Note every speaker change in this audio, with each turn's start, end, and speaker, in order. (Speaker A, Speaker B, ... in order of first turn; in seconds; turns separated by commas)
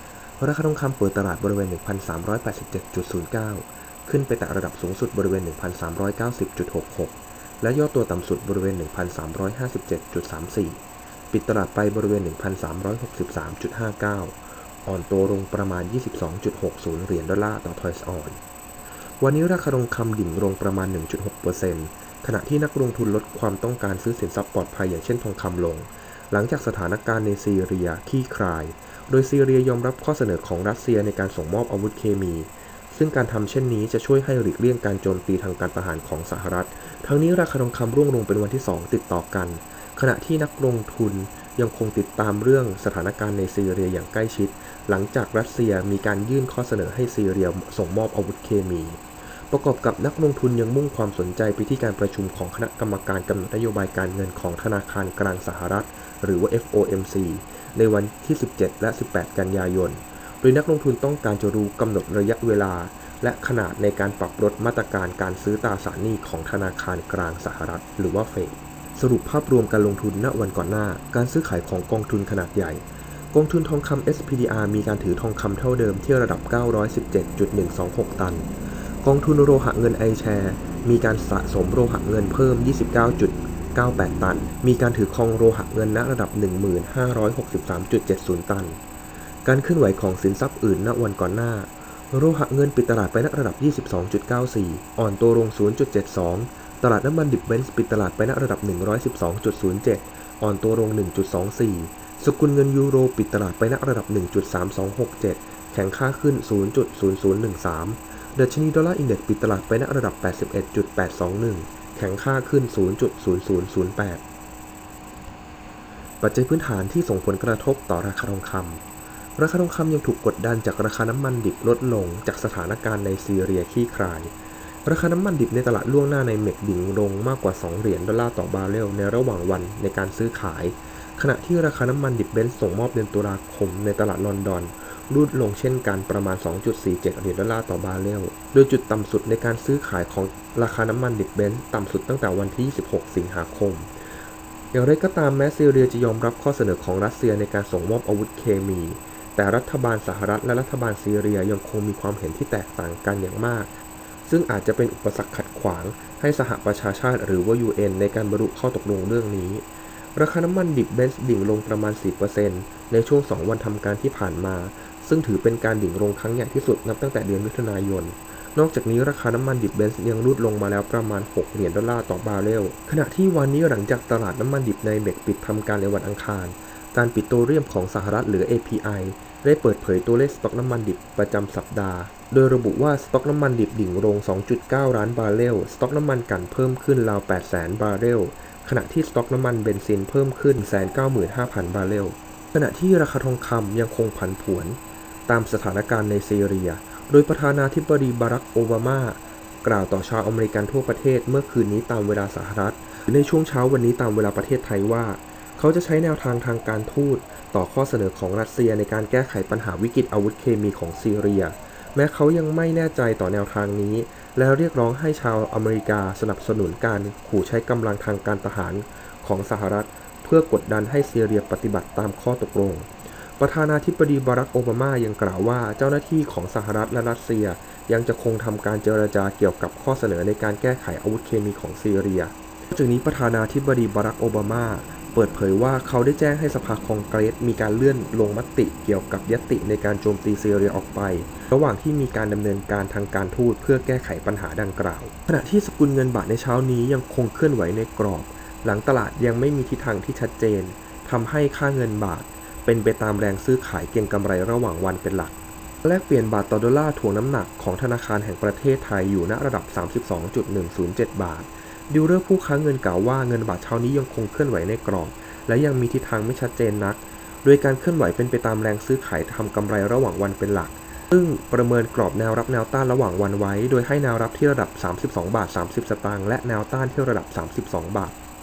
Speaker A: 0.4-18.4, Speaker A: 19.2-78.5, Speaker A: 79.0-88.8, Speaker A: 89.4-114.2, Speaker A: 116.2-118.8, Speaker A: 119.4-124.3, Speaker A: 124.8-143.9, Speaker A: 144.7-153.7, Speaker A: 154.2-278.1